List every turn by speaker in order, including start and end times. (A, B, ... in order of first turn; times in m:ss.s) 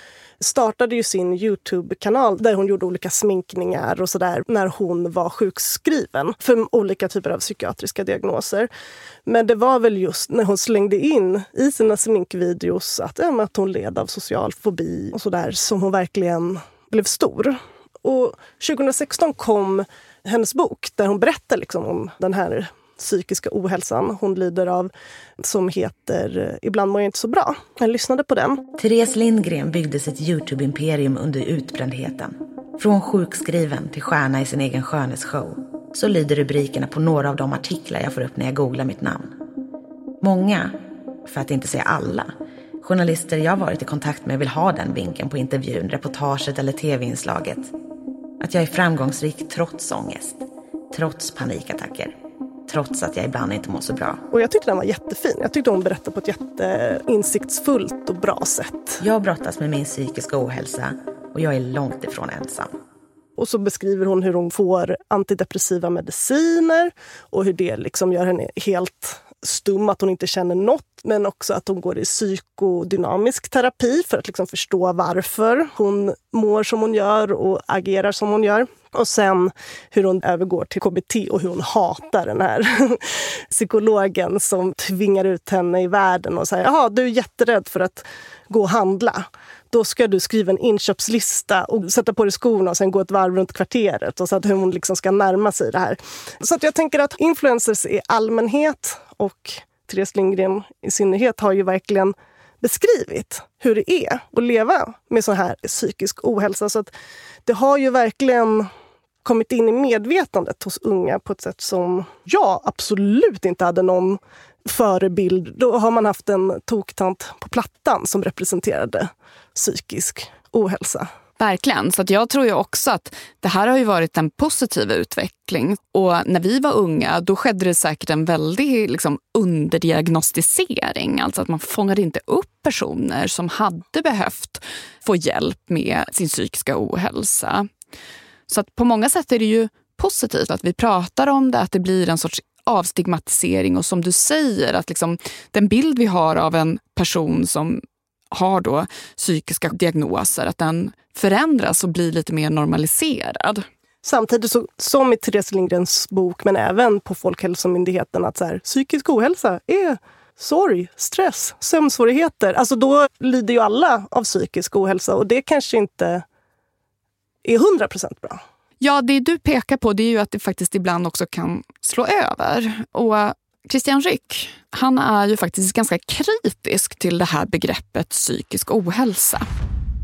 0:00.4-0:08.7 A
0:09.2-0:28.6 A
0:28.8-0:39.4 B
0:40.2-0:47.7 B
0:48.4-0:52.1 B
0:52.7-0:54.2 B
0:54.3-0:59.0 A
0:59.0-1:02.8 B
1:03.4-1:46.9 A
1:47.4-1:48.7 A
1:49.2-2:01.1 A
2:01.4-2:17.7 C
2:18.5-2:33.6 C
2:34.0-2:46.2 A
2:47.4-2:48.4 A
2:48.8-2:59.4 C